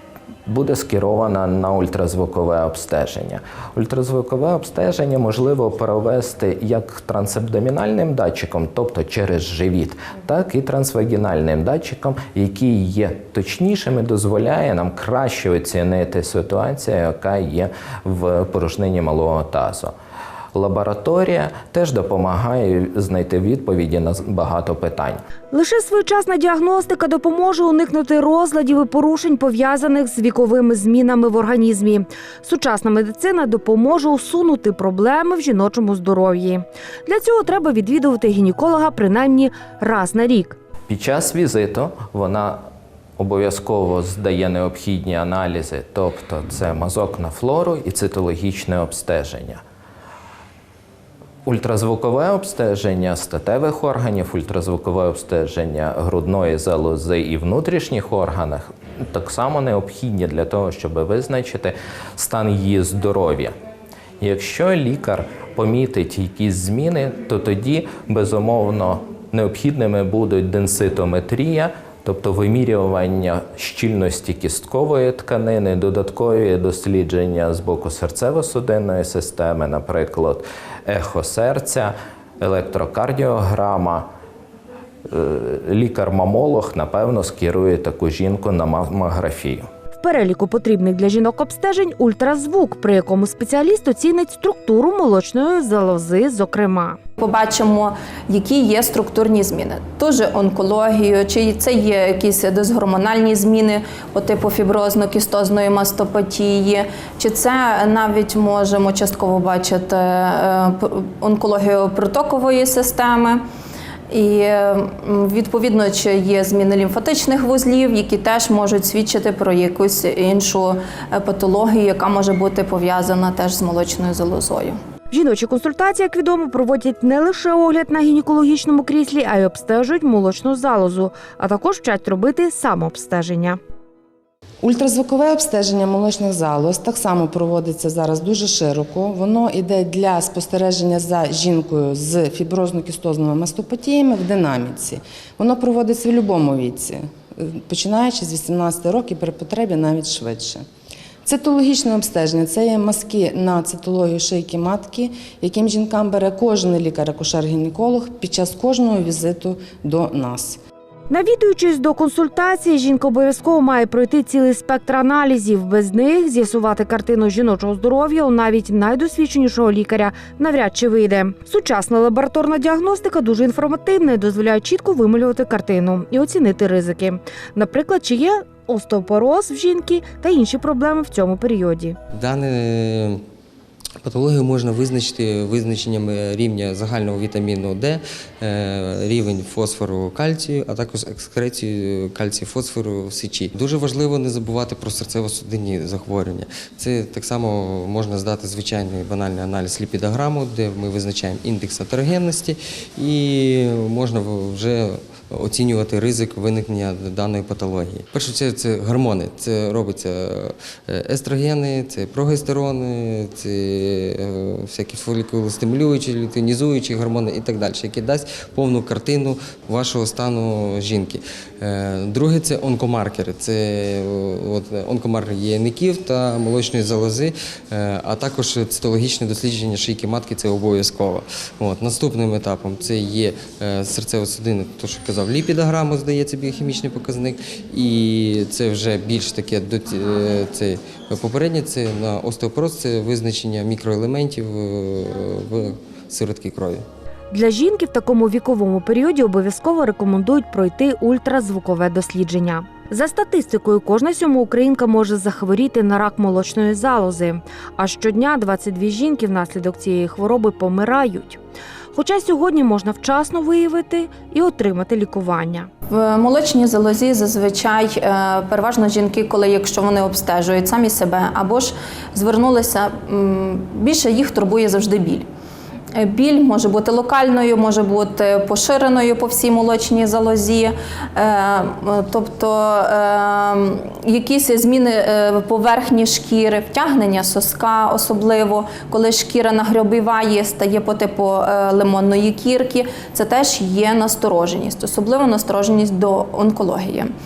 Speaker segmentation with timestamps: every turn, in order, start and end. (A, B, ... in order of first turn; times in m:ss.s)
0:00.5-0:19.9 A
0:20.5-0:25.2 A
0:25.5-0:40.6 B
0:40.9-0:42.6 A
0:43.2-0:49.6 A
0:51.4-1:03.5 A
1:04.2-1:24.1 A
1:25.1-1:29.7 A
1:30.0-1:37.0 B
1:37.2-1:53.4 C
1:54.1-2:04.8 C
2:05.1-2:13.6 B
2:14.6-2:30.6 D
2:31.2-2:40.6 D
2:41.1-3:02.0 B
3:02.2-3:03.2 E
3:04.0-4:06.8 E
4:07.3-4:21.4 B
4:21.9-4:25.7 B
4:25.9-4:35.2 C
4:36.0-4:57.1 C